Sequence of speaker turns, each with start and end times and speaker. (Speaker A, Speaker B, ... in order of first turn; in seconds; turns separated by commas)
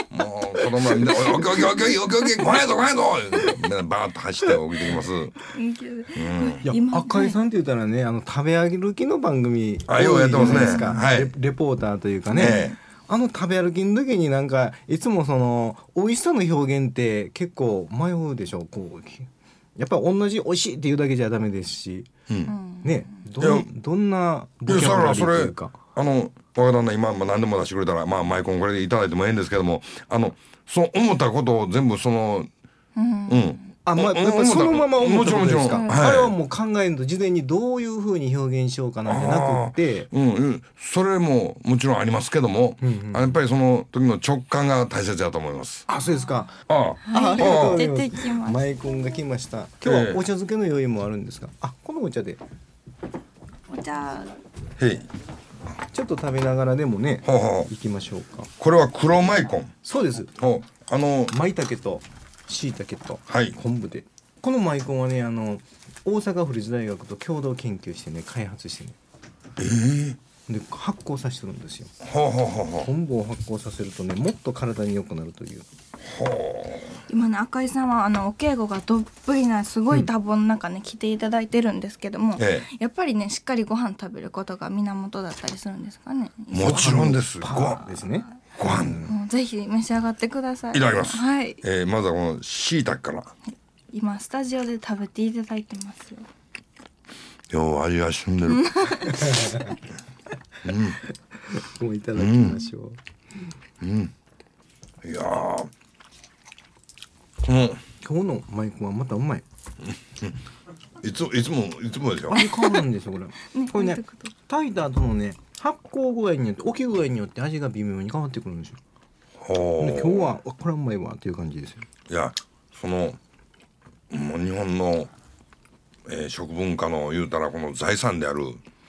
Speaker A: 0.1-5.4, Speaker B: 1.0-1.8, Speaker C: 5.5-7.3, Speaker A: 6.1-6.7, Speaker B: 6.7-22.1, Speaker A: 9.9-11.3, Speaker C: 10.4-11.0, Speaker A: 12.3-12.8, Speaker C: 12.3-12.7, Speaker A: 22.3-22.6, Speaker C: 22.5-23.1, Speaker B: 22.8-25.8, Speaker A: 23.4-23.7, Speaker A: 24.7-32.5, Speaker C: 33.0-33.6, Speaker A: 33.3-36.3, Speaker B: 33.9-40.1, Speaker C: 35.7-36.0, Speaker A: 39.0-45.9, Speaker B: 42.8-43.4, Speaker B: 45.9-46.6, Speaker A: 46.7-47.8, Speaker C: 47.0-48.7, Speaker B: 47.1-52.4, Speaker A: 49.8-50.2, Speaker C: 53.7-54.3, Speaker A: 54.8-55.1, Speaker B: 55.9-58.5, Speaker A: 57.2-57.7, Speaker A: 58.6-59.7, Speaker B: 59.8-60.3, Speaker A: 60.4-61.4, Speaker B: 61.3-69.0, Speaker A: 63.3-63.6, Speaker A: 69.6-70.2, Speaker B: 70.5-71.9, Speaker A: 72.0-72.9, Speaker B: 72.8-75.7, Speaker A: 76.1-77.0, Speaker C: 77.1-87.1, Speaker A: 82.4-82.7, Speaker A: 86.5-87.8, Speaker B: 86.5-89.1, Speaker A: 88.6-89.1, Speaker C: 89.1-91.6, Speaker A: 90.7-93.3, Speaker C: 93.9-96.3, Speaker A: 97.5-99.2, Speaker C: 98.5-99.6, Speaker A: 100.6-101.0, Speaker B: 101.5-103.0, Speaker A: 102.2-102.7, Speaker A: 103.8-104.1, Speaker A: 105.0-105.7, Speaker A: 107.4-107.8, Speaker B: 108.0-109.4, Speaker A: 111.0-112.5, Speaker B: 112.3-118.8, Speaker C: 113.5-114.3, Speaker A: 119.4-120.3, Speaker B: 119.8-121.8, Speaker A: 122.1-123.2, Speaker A: 124.1-125.1, Speaker A: 126.1-128.6